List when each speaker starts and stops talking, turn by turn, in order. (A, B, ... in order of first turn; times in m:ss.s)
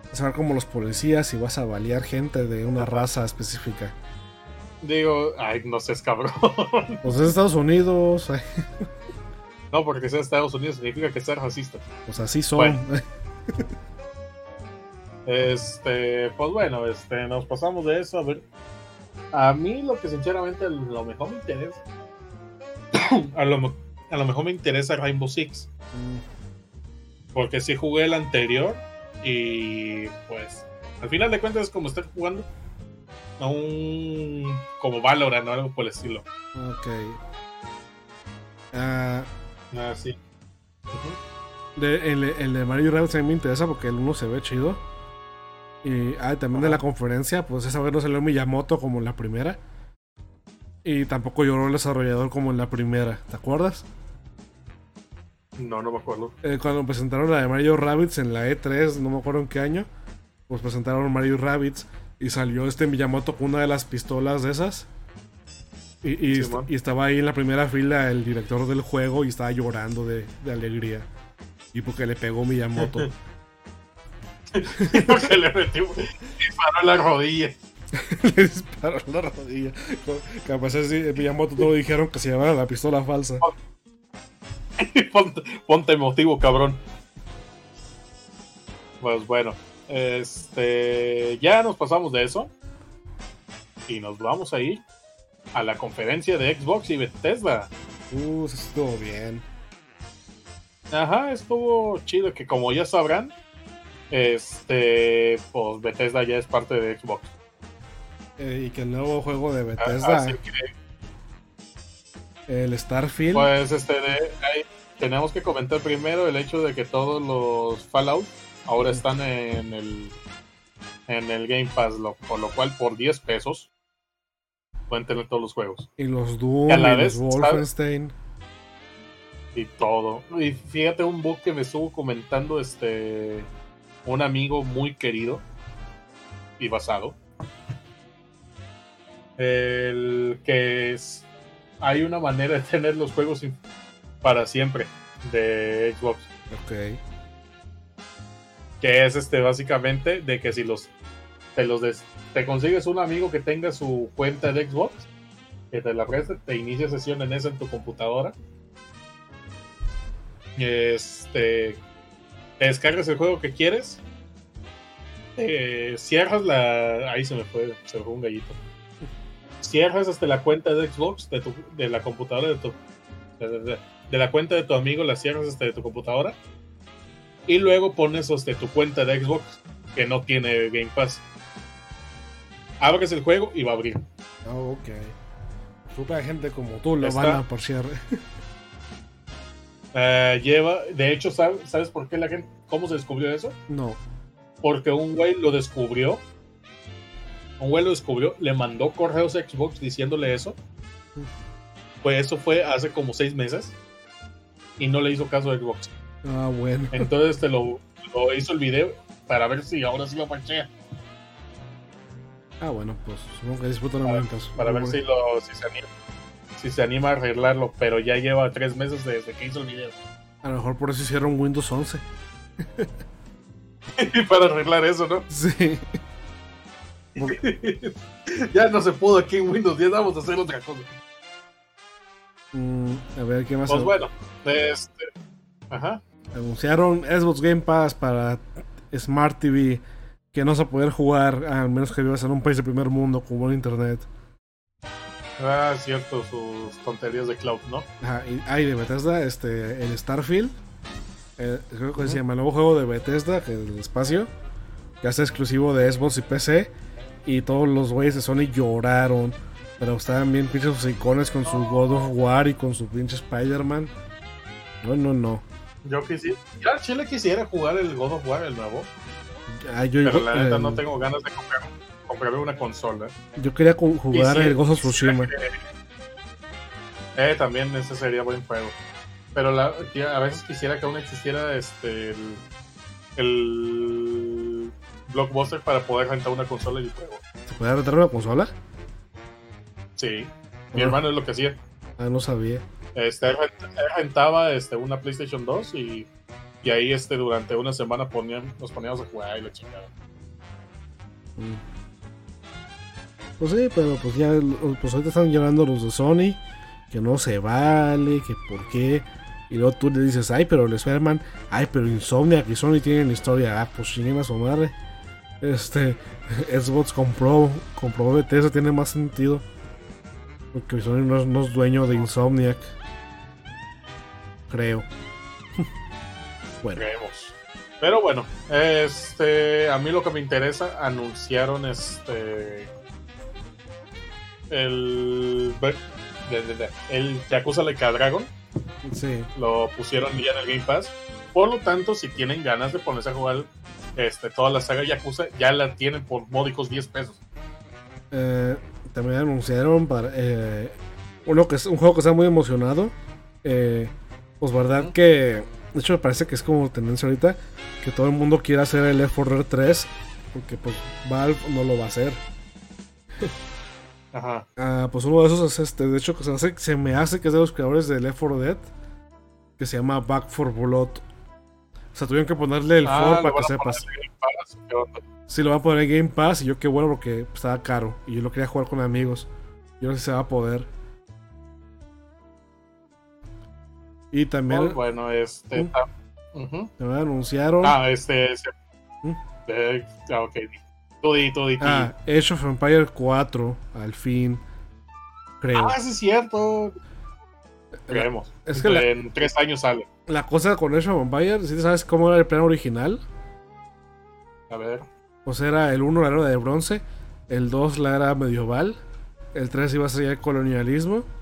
0:00.1-0:04.0 A
0:02.8-0:03.0 B
0:04.8-0:07.1 B
0:07.0-0:08.9 A
0:09.7-0:11.8 B
0:12.1-0:13.7 A
0:15.2-0:18.4 B
0:19.3-0:21.8 B
0:22.9-0:25.7 B
0:25.9-0:26.2 A
0:27.3-0:32.5 B
0:33.4-0:36.2 B
0:36.5-0:37.2 A
0:38.7-0:39.3 A
0:39.7-0:40.2 B
0:40.9-0:41.2 B
0:41.8-0:44.8 A
0:45.8-0:49.6 A
0:46.5-0:46.8 B
0:50.8-0:53.8 A
0:55.6-0:56.3 B
0:56.4-0:59.9 A
1:00.5-1:04.9 A
1:06.0-1:11.1 A
1:06.3-1:06.7 B
1:11.7-1:13.1 A
1:12.8-1:13.1 B
1:14.5-1:17.6 B
1:14.8-1:15.3 A
1:17.9-1:23.5 A
1:24.8-1:26.8 B
1:29.0-1:32.5 B
1:33.9-1:34.8 B
1:35.5-1:37.7 B
1:38.1-1:39.4 A
1:40.9-1:43.3 B
1:44.1-1:47.3 B
1:48.4-1:50.4 A
1:49.8-1:50.7 B
1:52.5-1:53.5 A
1:53.3-2:00.1 B
2:01.1-2:03.7 B
2:04.9-2:05.9 B
2:06.0-2:08.1 A
2:06.7-2:07.6 B
2:09.5-2:13.5 B
2:14.0-2:15.4 B
2:16.6-2:17.2 B
2:19.4-2:21.3 B
2:21.8-2:23.6 B
2:24.2-2:26.3 B
2:26.5-2:27.0 A
2:28.8-2:30.9 B
2:31.5-2:35.1 B
2:35.7-2:38.4 B
2:40.6-2:41.8 B
2:42.6-2:44.0 B
2:45.4-2:48.6 B
2:49.6-2:52.8 B
2:53.4-2:56.4 B
2:57.5-3:01.2 B
3:02.8-3:04.1 B
3:04.4-3:05.1 A
3:05.9-3:08.2 A
3:07.0-3:07.4 B
3:09.9-3:13.6 B
3:13.7-3:14.0 A
3:14.6-3:16.2 B
3:17.6-3:20.6 B
3:22.0-3:23.7 B
3:24.8-3:25.9 B
3:26.2-3:27.1 A
3:26.9-3:30.7 B
3:32.6-3:35.0 A
3:34.0-3:35.9 B
3:36.6-3:40.0 B
3:40.4-3:42.0 A
3:42.6-3:42.9 A
3:44.0-3:45.2 B
3:45.3-3:45.9 A
3:47.2-3:50.9 B
3:52.5-3:53.9 A
3:53.7-3:55.1 B
3:55.7-3:56.0 B
3:56.3-4:04.1 A
4:05.4-4:07.9 B
4:08.0-4:10.6 A
4:11.4-4:14.3 A
4:15.0-4:16.7 A
4:17.2-4:23.9 A
4:24.8-4:25.4 A
4:25.8-4:28.9 B
4:29.5-4:30.8 A
4:30.0-4:33.1 B
4:33.4-4:35.3 A
4:34.1-4:35.6 B
4:37.2-4:38.8 B
4:39.3-4:42.4 B
4:43.2-4:47.2 B
4:47.5-4:48.5 A
4:50.0-4:51.6 B
4:52.0-4:52.6 A
4:52.9-4:56.1 B
4:56.6-4:59.9 B
5:01.4-5:01.6 A
5:03.4-5:14.7 A
5:15.4-5:19.4 A
5:20.5-5:22.7 A
5:24.5-5:24.9 A
5:26.8-5:32.7 B
5:34.5-5:38.3 B
5:38.8-5:39.3 A
5:39.4-5:47.2 B
5:48.1-6:02.2 A
6:04.1-6:04.4 B
6:04.6-6:08.7 A
6:09.6-6:11.0 A
6:11.9-6:13.8 A
6:12.8-6:15.0 B
6:15.3-6:19.3 A
6:19.8-6:20.7 A
6:24.1-6:24.8 A
6:24.5-6:26.7 B
6:26.8-6:27.8 A
6:27.6-6:28.5 B
6:29.4-6:31.9 B
6:31.6-6:34.4 A
6:35.4-6:35.8 A
6:35.5-6:36.8 B
6:37.9-6:38.9 A
6:37.9-6:39.8 B
6:40.1-6:43.0 A
6:44.5-6:44.9 B
6:45.2-6:48.8 A
6:49.3-6:51.1 A